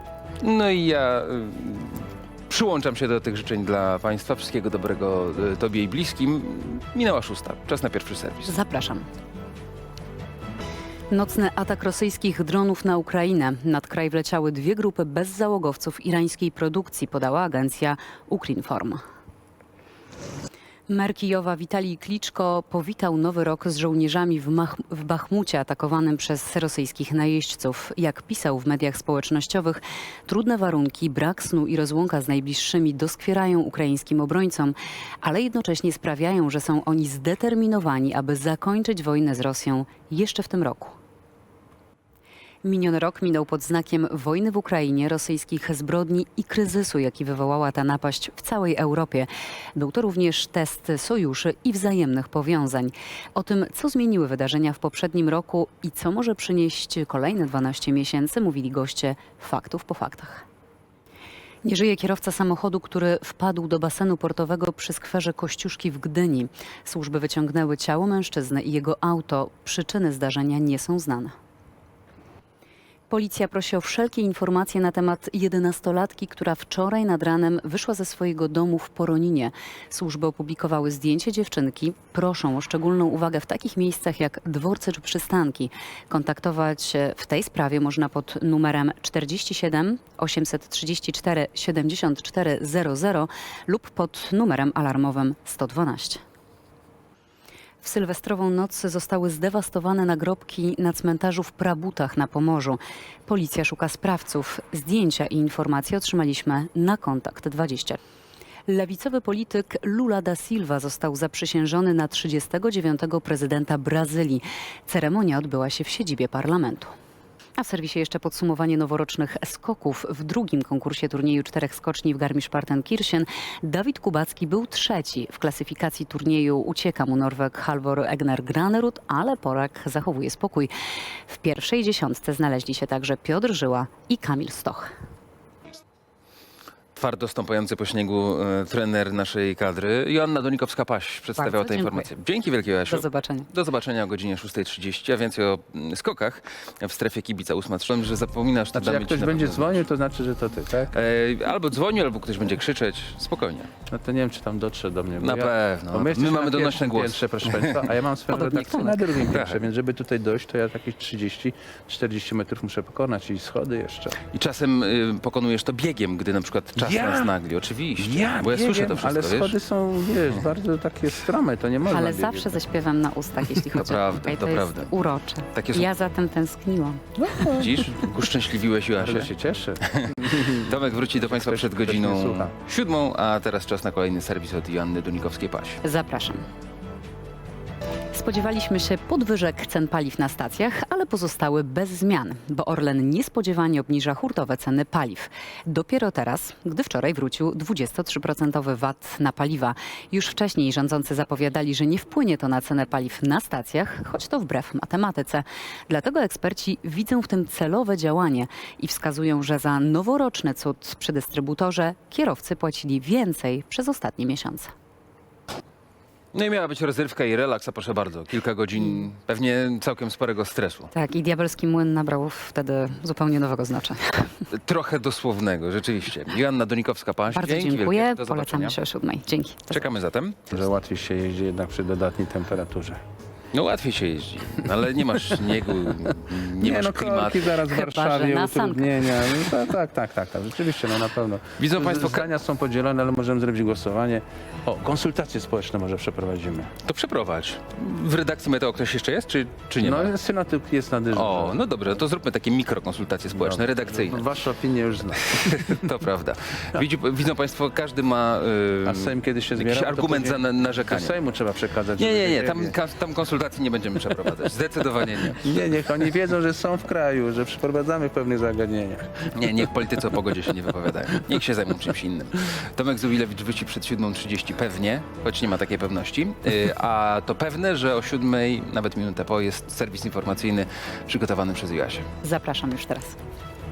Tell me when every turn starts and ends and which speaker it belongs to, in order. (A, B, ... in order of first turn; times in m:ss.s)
0:00.4-0:08.6 A
0:08.4-0:09.0 B
0:11.1-0:19.0 B
0:20.9-0:41.0 B
0:42.6-1:00.4 B
1:01.6-1:11.3 B
1:13.1-1:36.2 B
1:37.8-1:48.0 B
1:48.7-1:56.9 B
1:57.6-2:10.7 B
2:11.3-2:14.9 B
2:17.0-2:29.8 A
2:21.4-2:22.1 B
2:22.9-2:23.5 B
2:28.7-2:30.9 C
2:30.9-2:33.7 A
2:33.9-2:44.2 C
2:35.2-2:39.6 A
2:38.5-2:38.9 B
2:44.3-2:49.5 A
2:46.8-2:47.3 C
2:48.0-2:52.6 C
2:51.9-2:57.0 B
2:53.6-2:54.9 A
2:55.5-2:55.9 A
2:57.2-2:57.9 C
2:57.5-2:59.3 A
2:59.0-3:02.5 C
2:59.8-3:05.8 A
3:05.8-3:06.4 B
3:08.1-3:34.7 B
3:36.3-3:40.9 A
3:40.9-3:44.3 B
3:44.5-3:48.8 A
3:47.3-3:49.9 B
3:49.7-3:50.6 A
3:50.5-3:53.0 C
3:53.5-3:57.6 A
3:56.6-4:06.7 C
3:57.7-3:59.4 B
4:01.6-4:02.3 A
4:06.8-4:10.1 A
4:09.8-4:11.6 C
4:11.1-4:14.2 A
4:13.3-4:15.8 C
4:15.3-4:21.2 A
4:18.8-4:22.8 C
4:22.0-4:25.5 A
4:25.3-4:29.3 C
4:29.3-4:42.1 A
4:42.2-4:43.2 B